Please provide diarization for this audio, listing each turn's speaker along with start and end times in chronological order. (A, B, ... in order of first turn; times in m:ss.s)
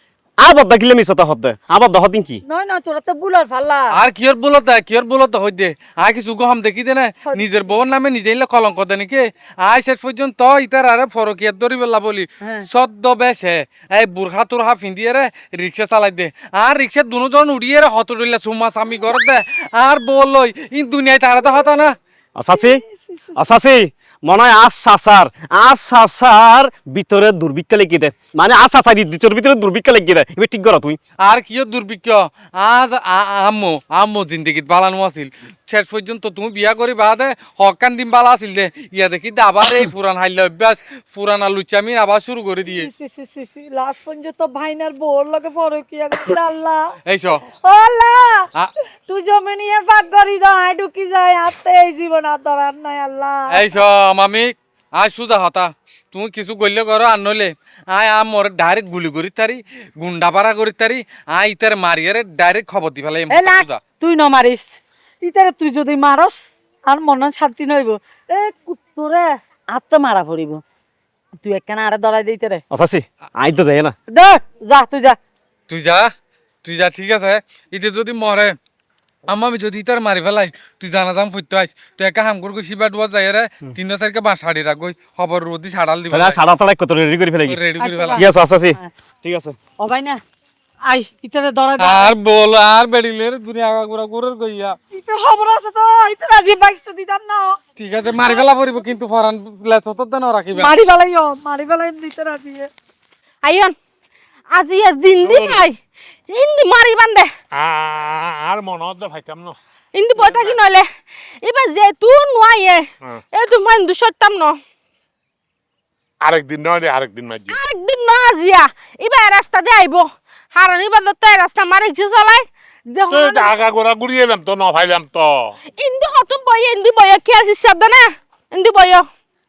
0:00.4-0:02.4 A
0:02.4-0:04.0 B
0:03.9-0:21.9 C
0:12.4-0:12.7 B
0:22.4-0:22.8 A
0:22.5-0:23.4 B
0:23.4-0:31.0 A
0:31.2-0:42.9 C
0:42.7-0:47.0 B
0:47.1-0:47.4 C
0:47.5-0:48.5 B
0:49.0-0:53.7 B
0:53.5-1:03.8 C
1:03.3-1:10.6 B
1:11.4-1:12.6 B
1:12.7-1:13.9 A
1:14.1-1:15.2 B
1:15.7-1:16.1 C
1:16.6-1:18.6 C
1:19.3-1:26.4 C
1:26.1-1:27.6 A
1:27.5-1:28.3 C
1:27.8-1:28.9 B
1:28.2-1:29.6 A
1:29.7-1:30.2 B
1:30.8-1:32.1 B
1:31.8-1:34.8 C
1:34.9-1:37.6 B
1:37.8-1:40.7 C
1:40.6-1:42.7 B
1:43.4-1:43.8 D
1:44.5-1:45.8 D
1:45.2-1:45.6 E
1:46.3-1:47.3 D
1:47.5-1:49.6 E
1:49.9-1:50.9 D
1:50.2-1:50.6 E
1:51.4-1:54.6 D
1:56.2-1:57.6 E
1:57.5-2:03.5 D
2:03.1-2:05.5 E
2:05.8-2:09.0 D